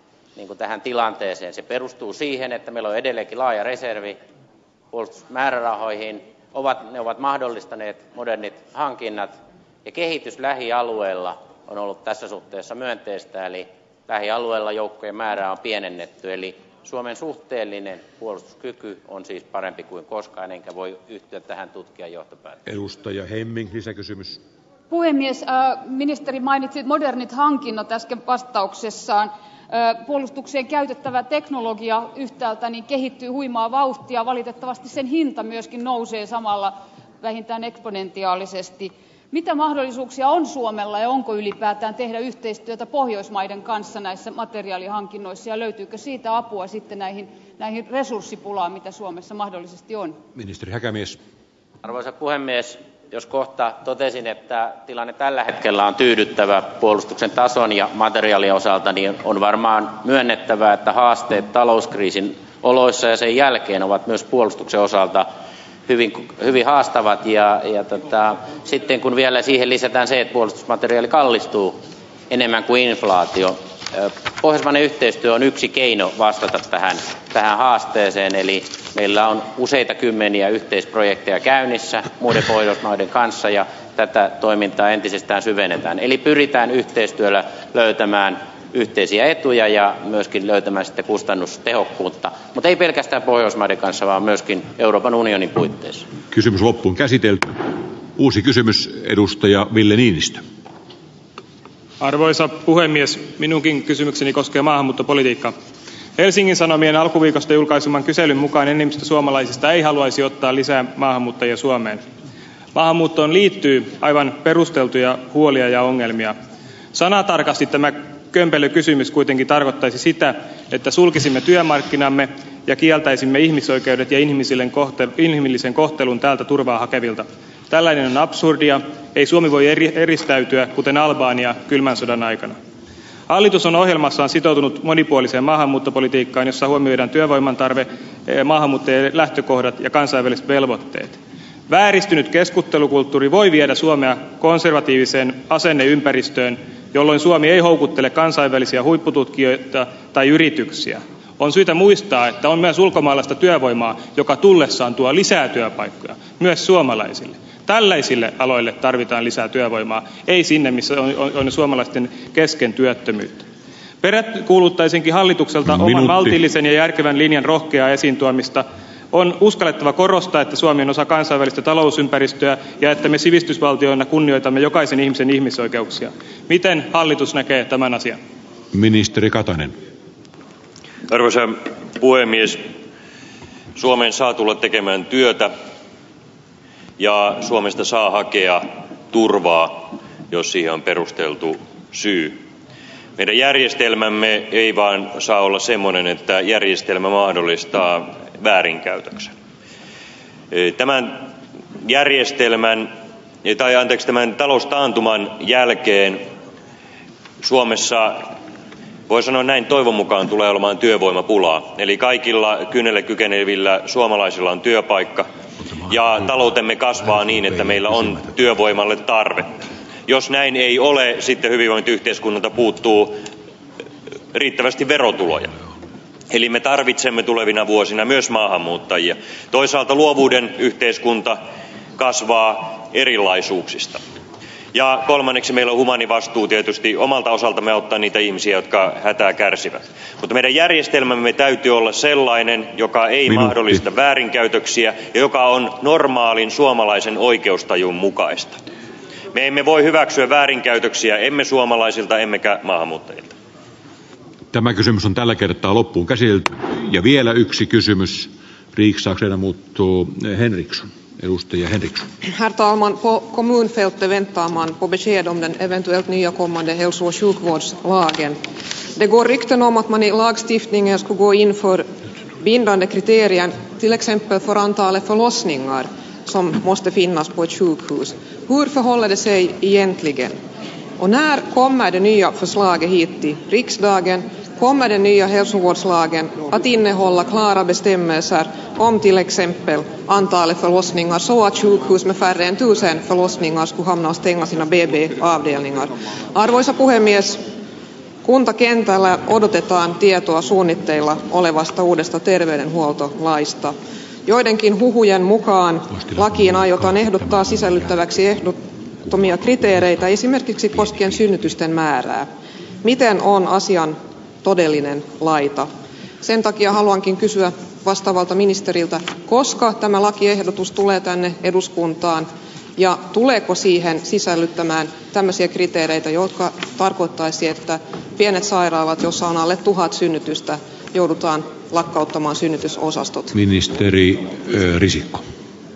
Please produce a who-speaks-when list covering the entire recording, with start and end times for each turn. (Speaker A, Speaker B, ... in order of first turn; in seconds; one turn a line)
Speaker A: 0.3-4.2
Speaker A: 4.9-22.6
Speaker B: 22.6-24.4
Speaker C: 24.9-50.2
Speaker B: 50.3-51.2
Speaker A: 51.8-65.3
Speaker A: 65.9-71.8
Speaker A: 72.3-96.1
Speaker B: 96.3-100.4
Speaker D: 102.0-105.5
Speaker D: 106.2-112.0
Speaker D: 112.7-116.4
Speaker D: 116.9-132.6
Speaker D: 133.3-163.4
Speaker D: 164.0-178.2
Speaker B: 165.6-166.4
Speaker B: 178.7-179.8
Speaker E: 181.1-182.7
Speaker E: 183.8-185.5
Speaker E: 187.0-192.4
Speaker E: 193.2-199.3
Speaker E: 200.5-202.9
Speaker E: 203.4-206.2
Speaker E: 207.4-208.3
Speaker E: 209.1-215.3
Speaker E: 215.9-219.6
Speaker E: 220.1-223.2
Speaker E: 224.3-225.5
Speaker E: 226.3-231.4
Speaker E: 232.0-234.0
Speaker E: 234.7-248.6
Speaker B: 243.3-243.8
Speaker E: 249.3-253.3
Speaker B: 254.5-262.1
Speaker F: 262.3-268.4
Speaker F: 268.9-271.9
Speaker F: 272.4-280.4
Speaker F: 281.0-297.4
Speaker F: 298.2-312.3
Speaker B: 306.1-306.6
Speaker F: 312.8-333.4
Speaker B: 333.3-335.2